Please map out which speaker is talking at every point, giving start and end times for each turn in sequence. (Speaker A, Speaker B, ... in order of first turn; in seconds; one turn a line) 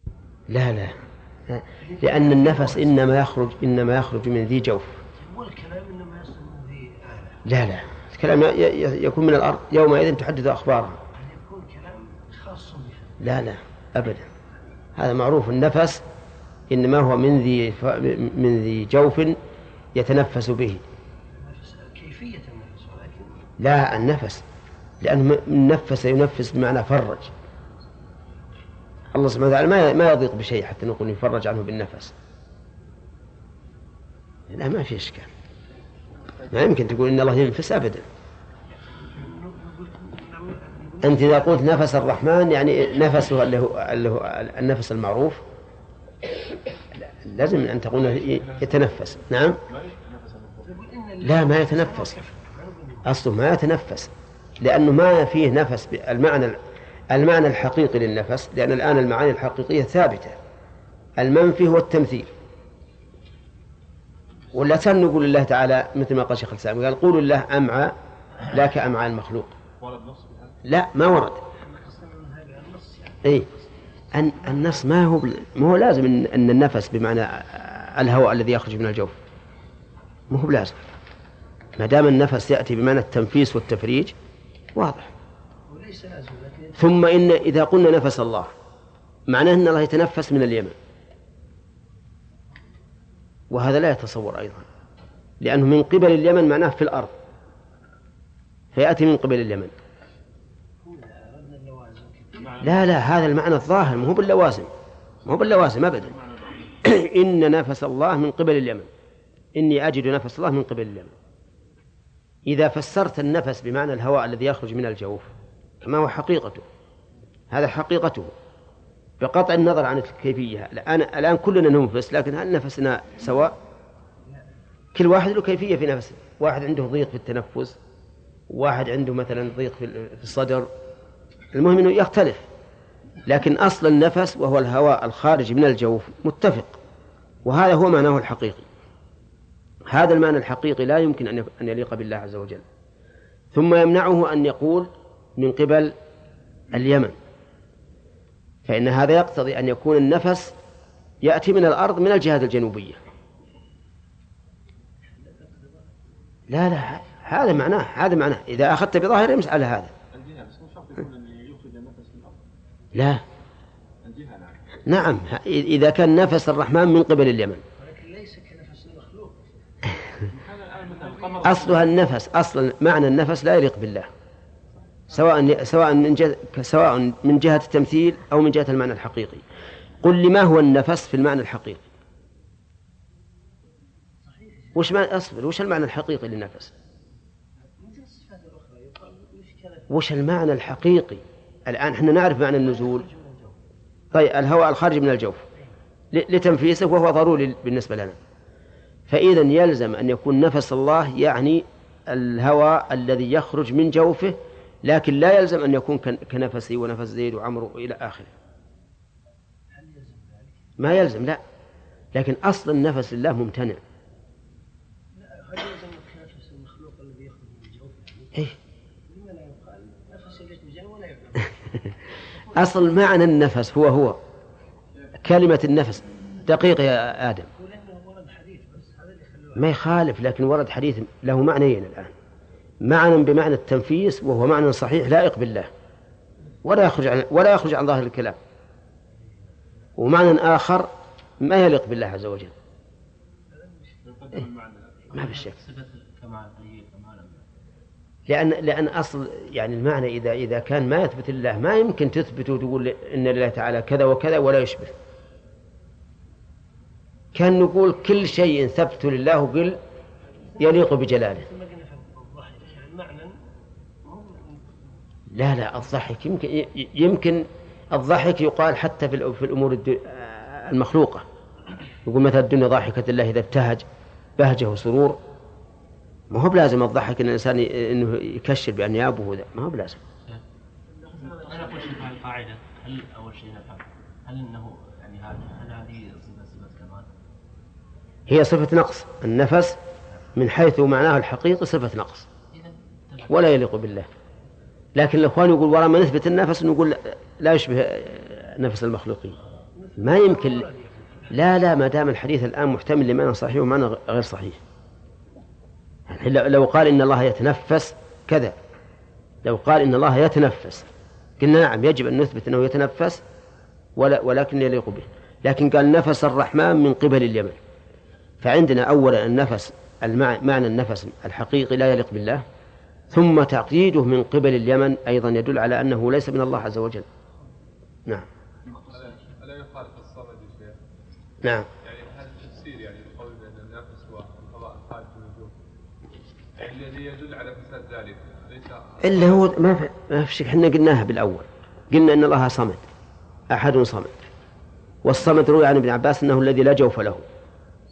Speaker A: 0.5-0.9
Speaker A: 1.5-5.0
Speaker B: 1.8-2.9
Speaker B: 5.2-7.4
Speaker A: 7.5-11.0
Speaker B: 11.2-13.2
Speaker A: 13.2-14.3
Speaker A: 14.9-16.0
Speaker A: 16.7-19.4
Speaker A: 19.9-20.8
Speaker B: 21.4-23.5
Speaker A: 23.6-24.4
Speaker A: 25.0-27.3
Speaker A: 29.1-32.1
Speaker A: 34.5-35.3
Speaker A: 36.5-38.0
Speaker B: 39.0-41.6
Speaker A: 41.0-45.4
Speaker A: 46.9-49.6
Speaker C: 49.7-50.7
Speaker B: 50.6-53.1
Speaker A: 51.2-52.1
Speaker A: 53.0-56.6
Speaker A: 57.1-60.4
Speaker A: 61.2-62.3
Speaker A: 64.5-68.0
Speaker A: 68.5-69.5
Speaker C: 69.8-70.5
Speaker A: 70.7-71.4
Speaker B: 71.6-73.7
Speaker A: 74.1-79.2
Speaker A: 80.3-80.8
Speaker A: 81.8-84.1
Speaker A: 84.7-85.1
Speaker B: 85.7-87.0
Speaker A: 86.8-88.5
Speaker A: 89.3-90.8
Speaker A: 93.5-94.7
Speaker A: 95.4-97.2
Speaker A: 98.7-99.7
Speaker B: 100.8-102.5
Speaker C: 102.4-102.8
Speaker A: 102.6-104.7
Speaker A: 105.2-106.1
Speaker C: 105.3-106.7
Speaker A: 106.8-108.9
Speaker A: 109.5-111.1
Speaker A: 112.5-116.7
Speaker A: 117.5-118.3
Speaker A: 119.2-123.5
Speaker A: 124.9-127.8
Speaker A: 128.5-130.7
Speaker A: 131.5-132.5
Speaker A: 133.2-136.8
Speaker A: 137.4-138.7
Speaker A: 139.9-142.6
Speaker A: 143.5-145.9
Speaker A: 146.7-147.2
Speaker A: 148.7-150.6
Speaker A: 151.2-153.0
Speaker B: 155.2-155.9
Speaker A: 156.5-159.9
Speaker C: 160.1-162.4
Speaker A: 162.9-163.2
Speaker C: 164.0-164.6
Speaker A: 164.9-167.6
Speaker B: 167.8-169.8
Speaker C: 170.2-171.9
Speaker B: 171.0-171.4
Speaker A: 171.4-174.1
Speaker A: 175.1-179.4
Speaker A: 180.0-181.8
Speaker B: 184.2-184.9
Speaker A: 184.8-186.7
Speaker B: 187.6-189.9
Speaker A: 189.9-193.1
Speaker B: 192.6-193.6
Speaker A: 194.1-195.4
Speaker A: 196.1-198.2
Speaker A: 199.1-208.3
Speaker B: 209.7-210.6
Speaker A: 210.8-211.4
Speaker A: 212.1-213.8
Speaker B: 215.1-218.3
Speaker B: 219.1-221.5
Speaker A: 222.5-224.2
Speaker A: 225.2-227.5
Speaker B: 227.6-229.8
Speaker A: 229.6-232.1
Speaker A: 232.8-235.7
Speaker A: 236.6-238.4
Speaker A: 240.0-240.9
Speaker A: 241.4-242.5
Speaker C: 244.0-245.1
Speaker D: 245.1-247.5
Speaker A: 245.1-245.6
Speaker A: 248.3-254.9
Speaker A: 257.4-259.8
Speaker A: 260.6-261.4
Speaker B: 260.6-263.4
Speaker A: 265.3-271.2
Speaker A: 272.1-273.9
Speaker A: 274.4-275.2
Speaker A: 276.3-280.0
Speaker B: 281.1-281.9
Speaker D: 281.2-287.1
Speaker A: 288.3-289.8
Speaker A: 290.4-292.3
Speaker D: 292.5-293.3
Speaker A: 293.3-294.1
Speaker A: 294.9-299.4
Speaker B: 299.8-301.3
Speaker A: 300.0-300.7
Speaker A: 301.3-304.6
Speaker A: 306.1-308.6
Speaker A: 309.4-310.9
Speaker A: 311.4-313.2
Speaker A: 313.9-317.6
Speaker A: 318.4-322.4
Speaker A: 323.1-327.1
Speaker C: 328.9-330.8
Speaker C: 331.8-335.5
Speaker C: 336.6-339.4
Speaker A: 339.0-342.8
Speaker A: 343.5-344.1
Speaker A: 345.0-347.2